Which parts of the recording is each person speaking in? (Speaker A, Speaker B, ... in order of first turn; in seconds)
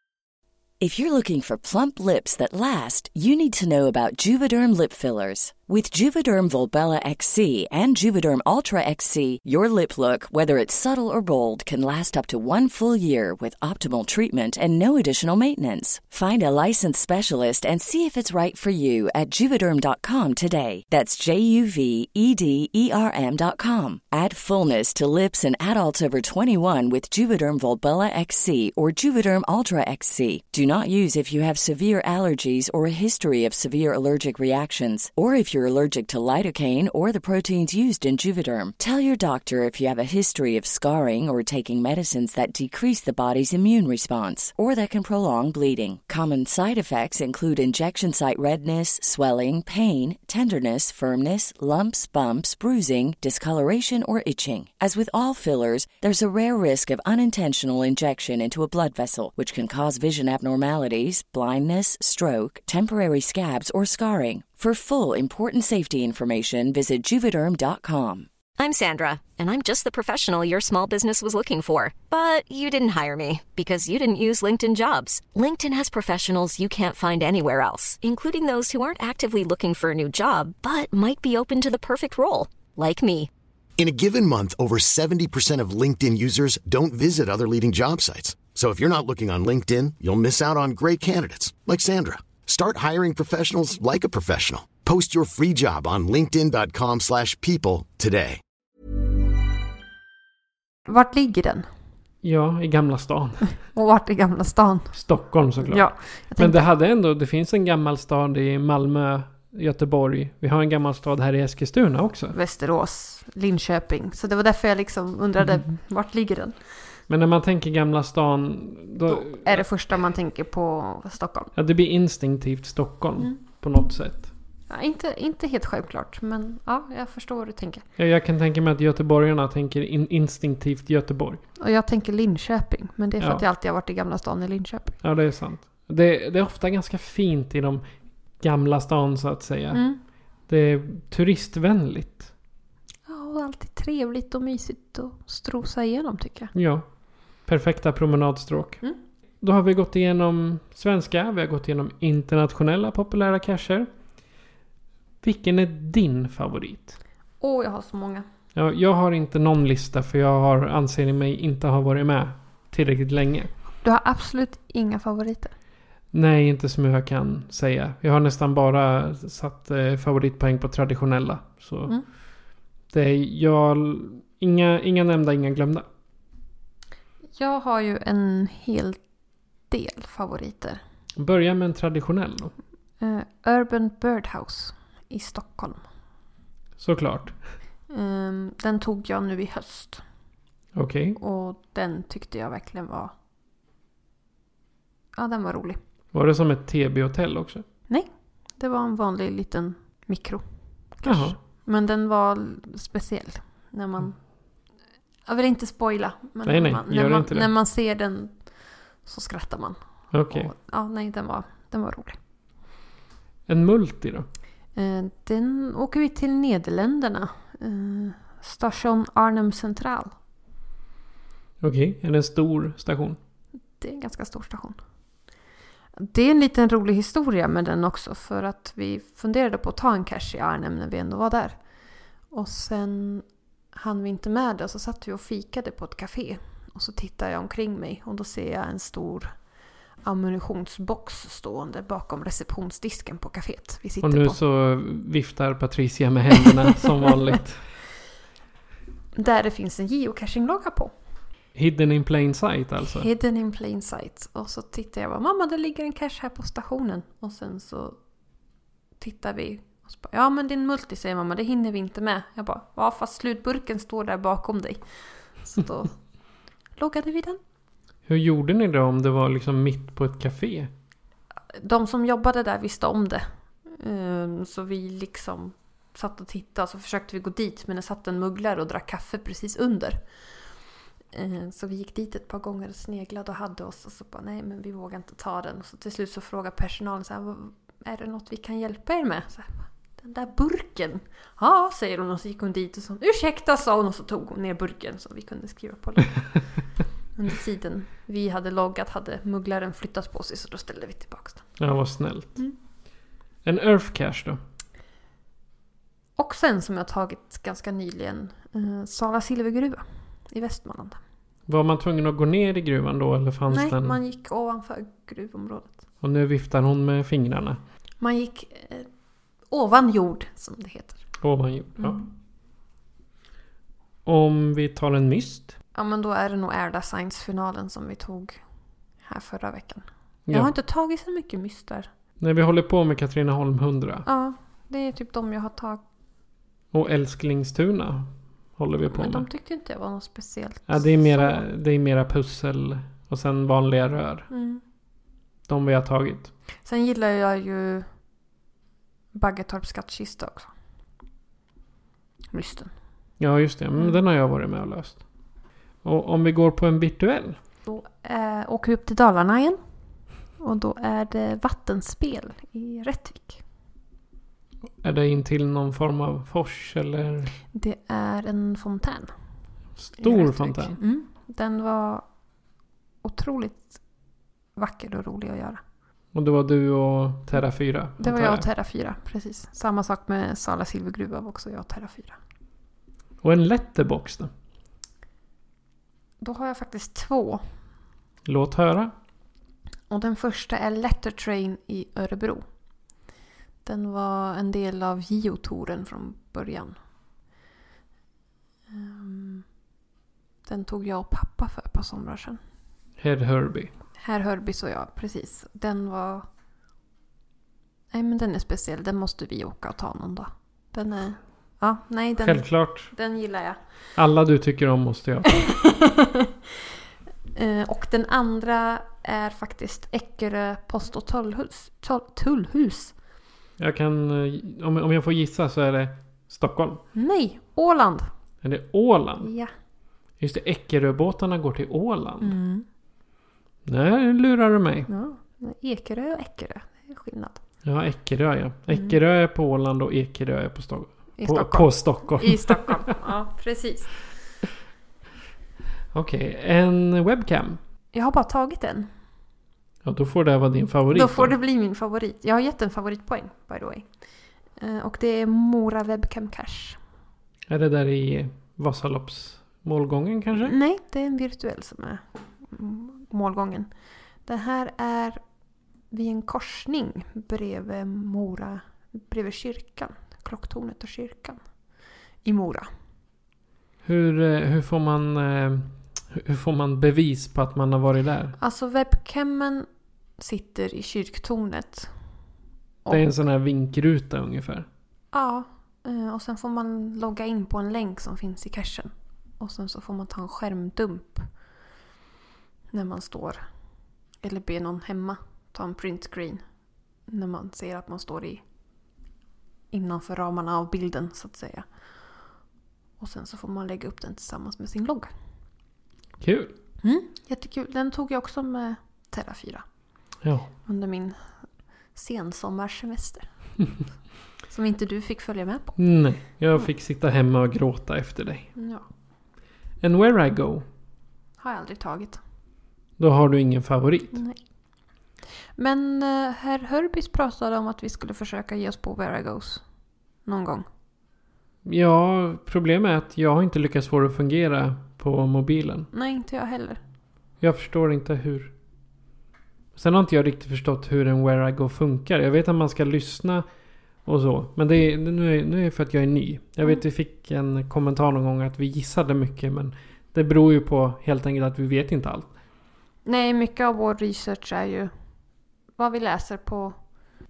Speaker A: 0.8-68.3
Speaker B: 68.6-83.3
Speaker C: 83.8-98.4
Speaker D: 100.8-101.7, 103.7-105.0, 105.6-106.6, 112.3-116.6, 119.1-121.5, 124.7-127.8, 131.6-134.9, 139.7-140.0, 143.1-146.5, 157.4-158.2, 163.8-165.5, 177.3-179.0, 179.7-180.8, 183.0-185.8, 187.9-190.0, 191.2-193.1, 195.1-195.8, 197.9-200.4, 201.0-204.2, 205.2-208.4, 209.0-212.2, 214.7-220.1, 223.8-224.8, 226.0-231.6, 232.3-239.3, 240.0-244.4, 249.1-250.9, 252.8-258.0, 259.0-264.8, 265.4-265.9, 266.8-267.4, 271.5-280.0, 281.1-296.2, 297.1-301.4, 306.2-311.0, 313.5-315.8, 318.0-318.9, 319.5-321.0, 325.7-328.4, 329.0-331.9, 334.1-335.8, 338.9-341.4, 344.3-344.6, 346.6-347.9, 349.1-350.5, 352.3-352.7, 357.7-359.6, 360.4-363.4, 367.5-369.1, 370.0-372.0, 373.0-373.8, 374.6-375.6, 378.0-382.2, 386.2-387.4, 389.9-392.4, 393.6-396.8, 398.7-399.4, 400.4-402.4, 404.0-406.3, 407.9-413.6, 415.4-416.5, 417.3-422.9, 426.9-428.1, 429.2-429.5, 432.2-432.6, 434.9-437.4, 441.2-444.0, 447.9-448.9, 450.9-453.9, 454.6-456.8, 460.4-463.7, 464.2-465.2, 465.9-471.4, 472.2-472.7, 478.4-479.7, 480.2-481.9, 485.1-491.3, 492.7-493.4, 494.2-496.4, 497.1-498.4, 499.7-501.6, 503.0-505.1, 506.8-509.6, 510.6-511.2, 511.9-513.3, 514.5-515.8, 518.5-518.8, 521.4-522.2, 524.1-524.4, 525.5-529.6, 530.2-530.6, 535.9-536.8, 553.0-554.9, 555.8-556.8
Speaker E: 102.2-103.6, 104.9-112.3, 117.1-119.7, 121.5-124.3, 128.0-131.4, 135.0-137.8, 138.4-139.8, 140.5-142.3, 146.5-146.8, 147.4-148.8, 149.4-153.9, 155.2-157.0, 158.5-163.5, 166.1-171.9, 172.9-175.8, 181.2-182.5, 186.8-187.4, 190.7-191.2, 196.1-197.6, 201.0-201.3, 206.4-207.5, 210.1-210.5, 213.5-214.3, 221.6-223.2, 244.0-247.6, 251.5-253.1, 268.1-270.7, 301.6-302.4, 303.4-304.4, 311.5-314.0, 316.0-317.6, 321.2-322.0, 324.1-325.6, 332.2-334.1, 336.7-339.2, 340.7-344.3, 345.5-346.3, 353.2-355.0, 355.8-357.4, 364.8-367.3, 369.8-370.8, 376.1-378.4, 383.2-384.3, 388.2-388.9, 403.0-403.7, 412.2-412.9, 413.9-415.5, 423.6-426.8, 428.4-429.3, 430.2-432.4, 433.6-434.9, 437.6-442.9, 445.9-447.6, 449.8-451.3, 457.5-460.5, 473.8-478.4, 482.9-484.7, 506.2-506.5, 510.2-510.5, 515.8-518.5, 519.8-520.6, 523.0-524.2, 531.6-535.9, 537.4-538.5, 539.7-543.4, 544.0-552.3